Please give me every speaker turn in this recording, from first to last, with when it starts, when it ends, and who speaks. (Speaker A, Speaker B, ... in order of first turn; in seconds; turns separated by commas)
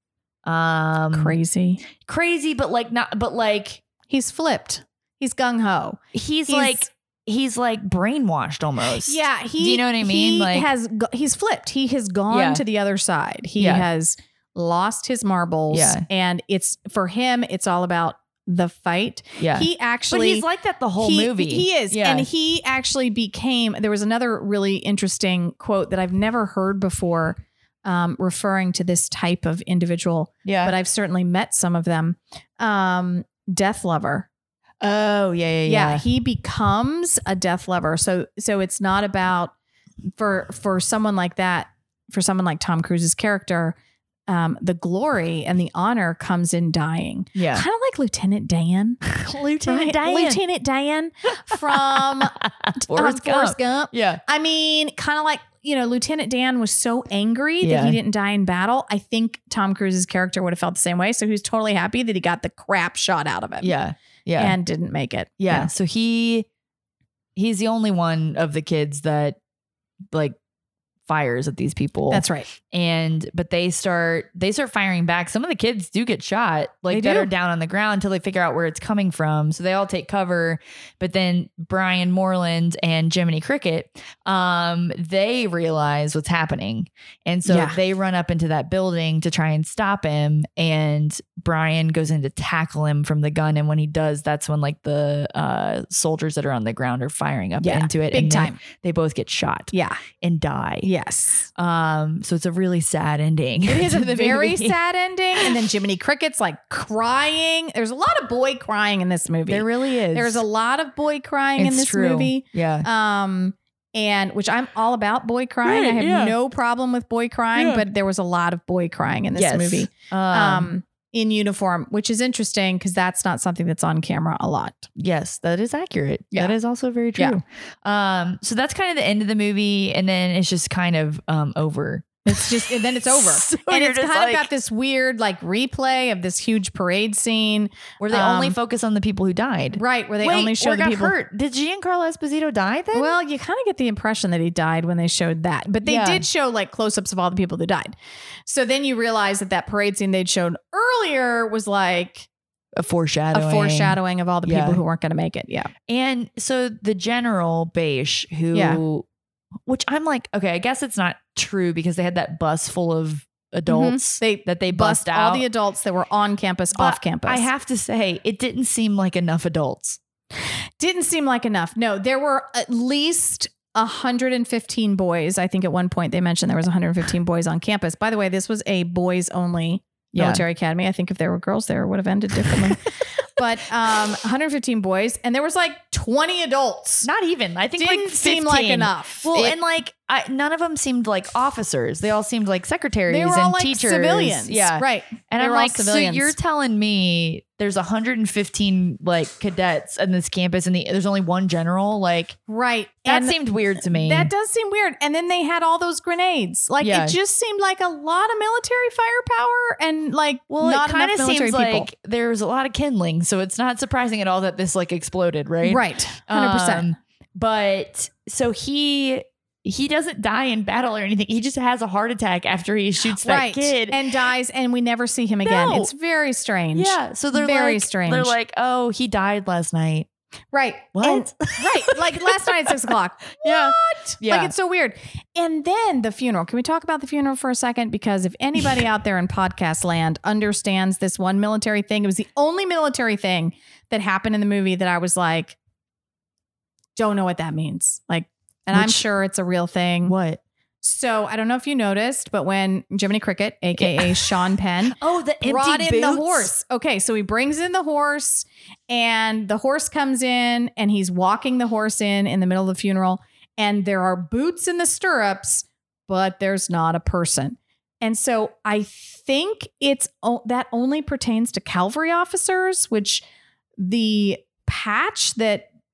Speaker A: 0.5-1.4, Speaker B: 1.1-1.8, Speaker A: 2.0-3.8, Speaker B: 4.1-6.9, Speaker A: 6.1-10.7, Speaker B: 8.9-20.4, Speaker A: 12.3-12.6, Speaker A: 13.6-13.8, Speaker A: 15.7-16.1, Speaker A: 19.4-22.3, Speaker B: 21.0-34.3, Speaker A: 30.4-30.7, Speaker A: 34.8-36.0, Speaker B: 35.6-39.5, Speaker B: 40.1-43.8, Speaker B: 44.3-63.7, Speaker A: 47.3-47.6, Speaker A: 49.1-50.4, Speaker A: 51.5-54.2, Speaker A: 57.6-58.0, Speaker A: 63.6-64.6, Speaker B: 64.4-65.7, Speaker A: 65.4-66.5, Speaker A: 67.4-69.4, Speaker A: 71.1-100.9, Speaker B: 72.1-72.5, Speaker B: 76.9-77.3, Speaker B: 87.4-87.8, Speaker B: 97.6-98.6, Speaker B: 99.7-100.0, Speaker B: 100.8-101.5, Speaker A: 101.5-104.8, Speaker B: 103.6-124.8, Speaker A: 109.5-110.4, Speaker A: 111.6-112.9, Speaker A: 115.6-116.3, Speaker A: 117.5-117.8, Speaker A: 119.3-120.7, Speaker A: 125.0-134.5, Speaker B: 132.2-138.6, Speaker A: 138.0-143.1, Speaker B: 139.7-141.1, Speaker B: 142.9-152.3, Speaker A: 145.8-146.2, Speaker A: 152.8-154.8, Speaker B: 153.3-155.7, Speaker A: 155.9-159.1, Speaker B: 158.5-158.8, Speaker A: 159.7-165.4, Speaker B: 163.7-167.5, Speaker A: 166.7-170.0, Speaker B: 170.8-187.1, Speaker A: 180.1-180.4, Speaker A: 182.4-182.6, Speaker A: 187.0-202.4, Speaker B: 187.8-189.6, Speaker B: 193.1-196.3, Speaker B: 202.5-211.9, Speaker A: 203.1-204.3, Speaker A: 206.8-207.2, Speaker A: 210.5-224.0, Speaker B: 215.6-216.9, Speaker B: 223.0-228.3, Speaker A: 225.4-225.9, Speaker A: 226.7-230.1, Speaker B: 230.5-245.6, Speaker A: 230.9-232.8, Speaker A: 233.4-234.5, Speaker B: 246.9-250.1, Speaker A: 248.7-249.0, Speaker A: 250.1-250.4, Speaker B: 250.8-273.2, Speaker A: 253.8-254.3, Speaker A: 255.0-256.5, Speaker B: 273.8-275.7